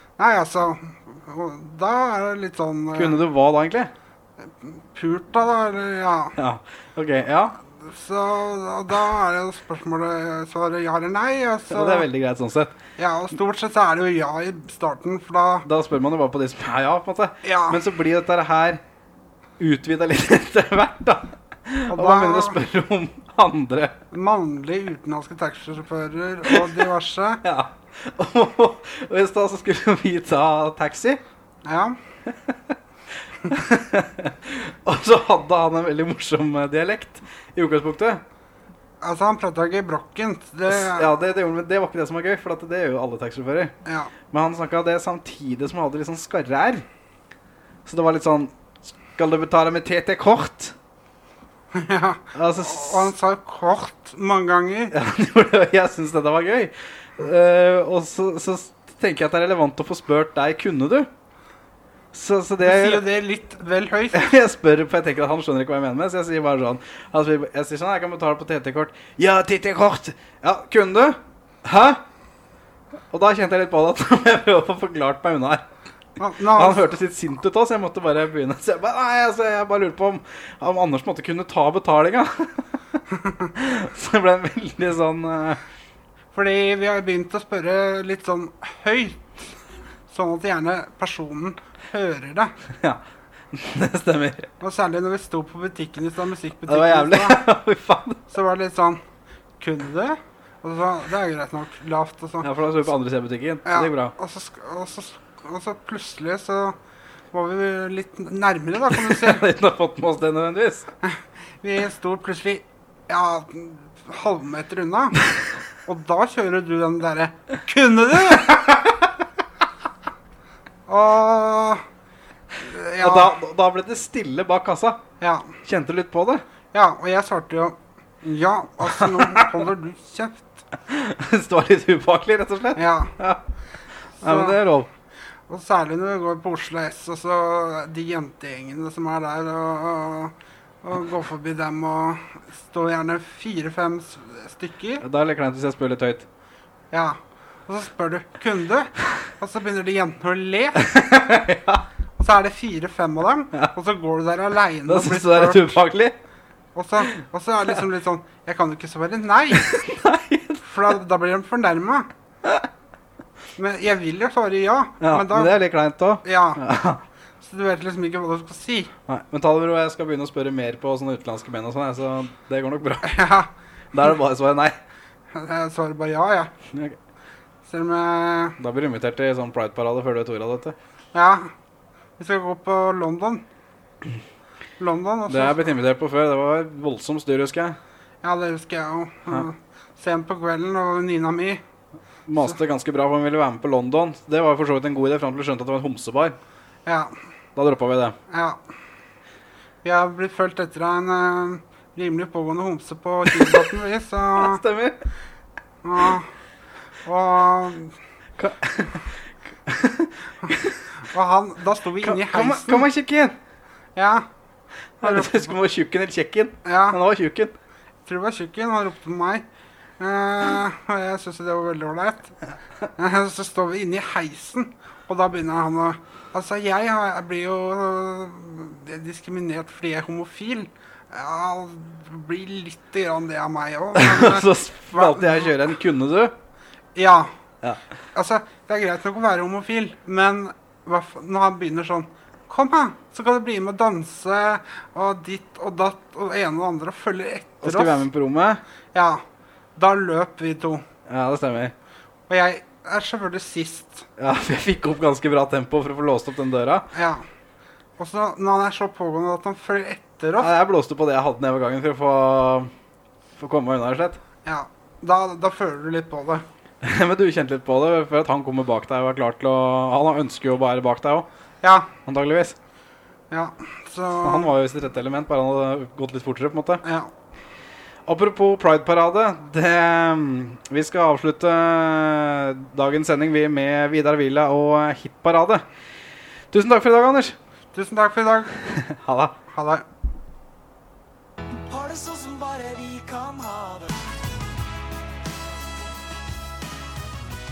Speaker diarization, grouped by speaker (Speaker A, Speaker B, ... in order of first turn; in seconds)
Speaker A: 0.2-3.2, 4.4-6.3, 7.8-12.1, 13.0-15.7, 17.4-17.8, 21.9-22.6, 24.1-27.4, 31.6-31.9, 39.0-41.1, 43.8-44.1, 51.7-54.9, 62.6-64.3, 76.2-76.9, 86.3-89.5, 90.1-92.5, 94.6-97.4, 98.3-99.0, 99.6-102.5, 103.7-106.8, 107.3-109.5, 111.0-115.2, 115.8-118.8, 120.9-121.8, 122.6-123.3, 125.2-125.5, 126.7-130.5, 132.7-133.1, 134.2-134.6, 135.5-145.0, 146.9-150.9, 152.2-155.8, 156.7-159.7, 160.6-162.1, 163.6-165.6, 166.2-166.6, 167.4-168.9, 173.0-173.5, 175.3-176.5, 177.7-178.6, 181.1-181.5, 182.2-183.4, 184.8-185.7, 188.2-191.6, 196.8-197.1, 198.3-198.6, 199.8-204.6, 205.8-206.3, 207.0-207.9, 211.0-212.9, 213.9-214.3, 215.0-215.5, 216.6-217.0, 218.1-219.4, 220.0-222.4, 222.9-235.6, 236.9-237.3, 238.1-248.1, 248.9-249.2, 249.8-250.8, 252.3-254.1, 256.9-257.2, 258.0-260.5, 264.4-266.4, 271.6-271.9, 273.3-274.5, 276.8-277.1, 287.7-288.6, 289.5-289.8
Speaker B: 2.9-3.9, 6.3-7.6, 11.7-12.8, 15.6-18.8, 19.6-23.9, 27.4-31.2, 32.2-32.8, 33.4-38.2, 40.7-43.7, 44.3-46.8, 47.9-50.8, 52.3-53.1, 54.9-61.1, 62.1-63.0, 64.1-72.0, 73.1-75.6, 76.5-82.7, 83.5-85.6, 92.7-94.5, 96.7-98.2, 102.4-104.1, 108.9-110.9, 123.0-125.0, 125.6-126.4, 128.9-129.5, 130.8-133.4, 134.2-134.9, 145.0-146.2, 150.8-151.8, 154.8-156.2, 159.5-160.6, 165.0-167.0, 169.1-173.3, 173.9-174.7, 176.7-177.0, 178.6-180.8, 185.3-187.8, 192.3-196.4, 197.6-198.2, 203.2-203.8, 204.3-205.0, 208.4-210.8, 212.0-213.4, 215.0-217.5, 233.9-236.3, 247.6-248.6, 251.1-251.7, 254.2-256.9, 260.4-262.7, 263.4-264.2, 266.8-271.3, 272.0-272.6, 274.2-276.8, 278.1-285.6, 286.5-287.4, 288.6-289.4
Speaker C: 291.7-294.0